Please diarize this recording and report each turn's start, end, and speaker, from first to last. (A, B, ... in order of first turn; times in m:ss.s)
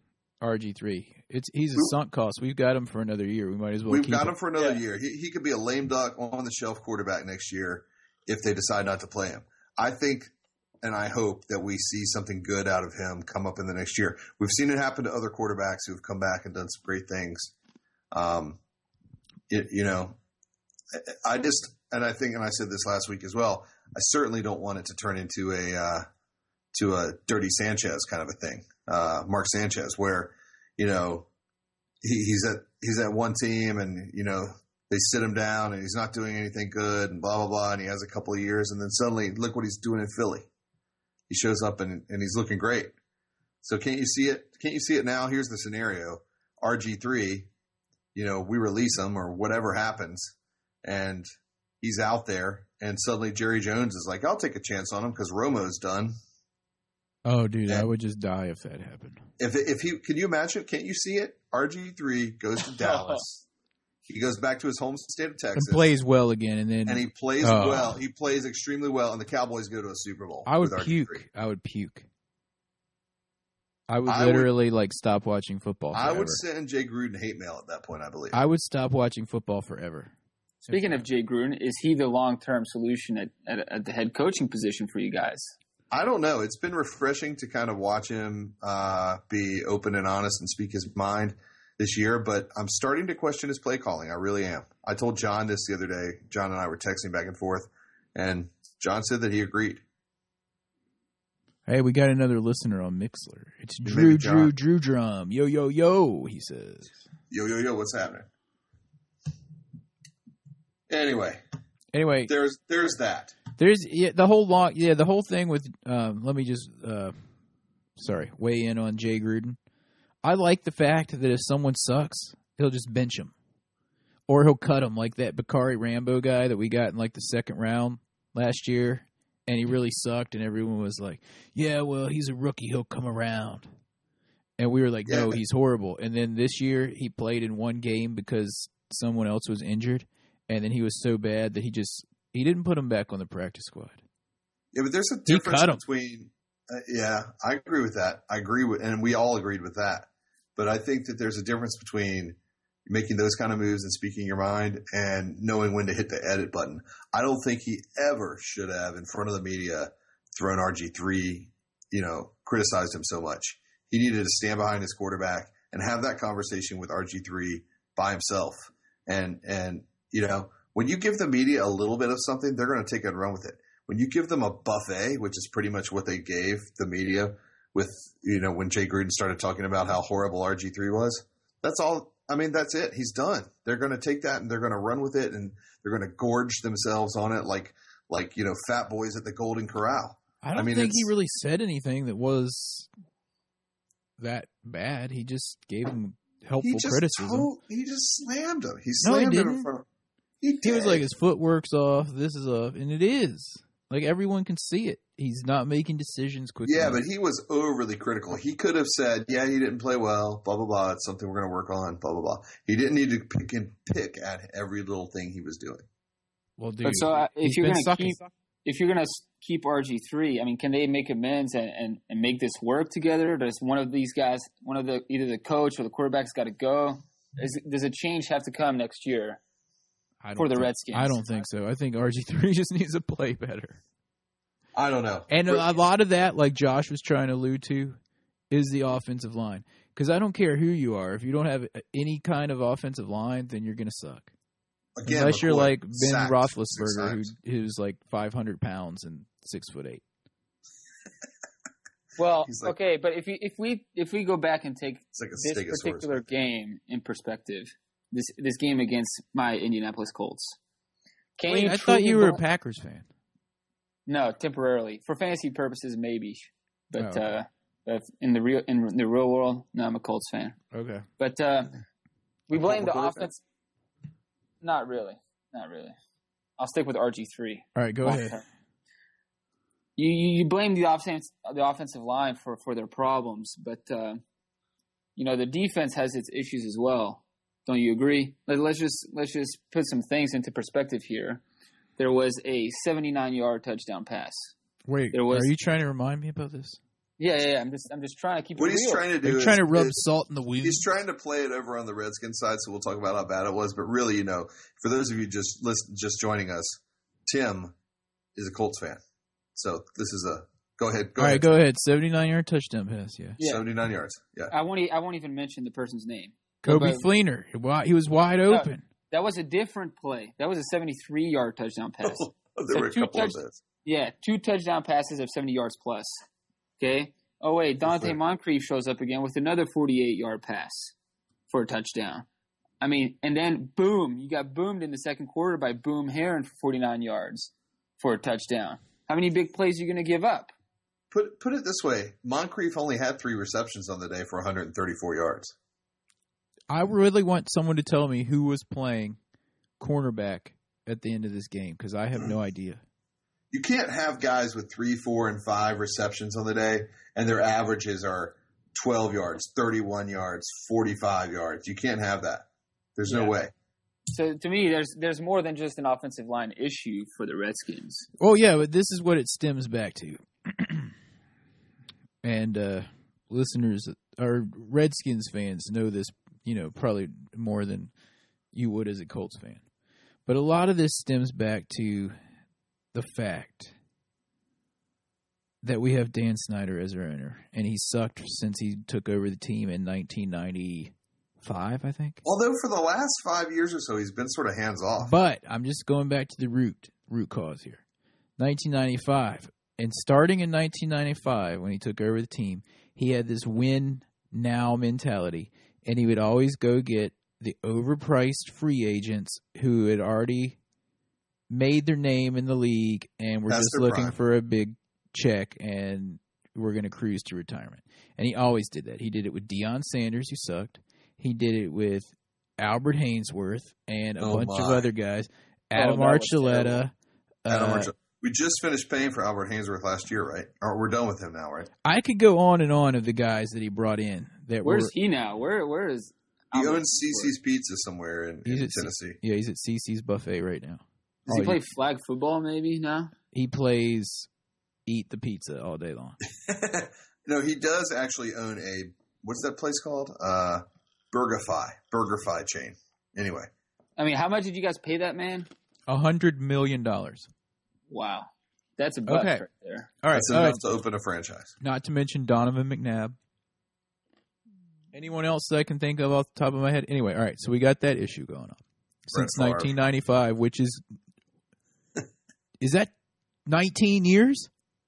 0:00.4-0:04.3 A
0:03.9-0:17.5 B
0:18.1-0:18.6 B
0:19.5-0:20.2 B
0:20.9-0:26.0 B
0:26.7-0:31.3 B
0:32.0-0:40.5 B
0:41.3-0:42.9 B
0:43.6-0:47.5 B
0:48.1-0:51.3 B
0:51.8-0:56.2 B
0:57.2-0:59.2 A
0:59.4-1:03.4 B
1:02.7-1:03.2 C
1:04.0-1:05.9 B
1:05.6-1:08.0 A
1:06.8-1:11.2 B
1:10.4-1:12.1 A
1:13.9-1:16.4 A
1:14.0-1:14.5 B
1:15.9-1:18.4 B
1:18.3-1:20.1 A
1:20.7-1:21.0 A
1:20.7-1:25.5 C
1:25.9-1:39.8 B
1:41.6-1:47.0 A
1:43.8-1:44.5 B
1:47.3-1:48.3 B
1:50.9-1:51.4 B
1:51.9-1:52.3 A
1:52.2-1:53.4 B
1:53.6-1:57.1 A
1:58.0-1:59.6 A
2:00.2-2:03.3 A
2:04.3-2:13.7 A
2:14.6-2:24.0 A
2:15.0-2:15.4 B
2:24.7-3:11.1 B
2:25.3-2:25.8 A
3:10.4-3:12.9 A
3:14.2-3:17.5 A
3:16.6-3:19.8 B
3:19.0-3:19.7 A
3:20.4-3:21.0 B
3:20.6-3:27.0 A
3:26.6-3:35.8 B
3:36.6-3:38.3 A
3:36.8-3:49.4 C
3:50.2-3:53.8 A
3:50.4-3:51.4 C
3:54.8-3:55.7 B
3:55.3-3:58.0 A
3:58.5-4:04.3 A
4:05.0-4:07.3 B
4:05.0-4:10.0 A
4:12.2-4:20.6 C
4:12.4-4:12.7 B
4:15.1-4:16.2 B
4:21.4-4:22.4 C
4:21.5-4:23.0 A
4:24.1-4:30.6 C
4:27.0-4:27.3 A
4:30.7-4:31.0 A
4:31.2-4:31.8 C
4:32.5-4:33.4 C
4:32.5-4:33.3 B
4:34.6-4:36.0 C
4:36.6-4:38.4 C
4:37.8-4:38.4 A
4:40.0-4:44.2 C
4:45.2-4:51.4 C
4:52.0-4:54.5 C
4:54.9-4:56.8 A
4:55.1-4:55.5 C
4:57.2-4:59.0 C
4:58.6-5:00.0 B
4:59.2-5:00.8 A
5:00.6-5:07.7 B
5:08.4-5:09.0 B
5:09.5-5:11.5 B
5:11.2-5:13.4 A
5:13.4-5:13.6 C
5:13.4-5:14.5 B
5:14.5-5:17.1 C
5:16.6-5:18.8 A
5:18.5-5:26.2 C
5:22.0-5:23.6 B
5:26.8-5:30.9 C
5:27.8-5:28.2 B
5:31.5-5:32.3 C
5:32.8-5:40.5 C
5:41.1-5:45.5 B
5:46.7-5:49.2 A
5:49.8-5:52.8 A
5:53.5-6:03.5 B
6:04.1-6:08.1 C
6:08.2-6:10.9 A
6:12.2-6:17.9 A
6:18.5-6:19.6 A
6:20.3-6:22.1 A
6:22.9-6:23.7 A
6:25.6-6:32.2 A
6:32.2-6:35.1 B
6:35.0-6:37.8 A
6:38.4-6:50.6 A
6:51.5-7:06.9 A
6:53.5-6:54.2 B
7:04.2-7:04.9 B
7:05.7-7:06.8 C
7:07.4-7:07.9 A
7:07.5-7:11.7 B
7:11.8-7:14.9 A
7:14.6-7:17.3 C
7:16.5-7:19.2 B
7:18.4-7:21.6 A
7:21.3-7:23.1 C
7:23.3-7:24.3 A
7:24.8-7:26.2 A
7:26.3-7:33.5 B
7:34.0-7:35.5 C
7:35.9-7:37.3 A
7:37.9-7:39.9 C
7:39.1-7:39.4 A
7:40.0-7:40.6 A
7:40.1-7:41.6 B
7:41.6-7:43.1 A
7:44.9-7:50.8 A
7:49.1-7:49.8 B
7:52.6-7:52.9 A
7:53.4-7:54.5 A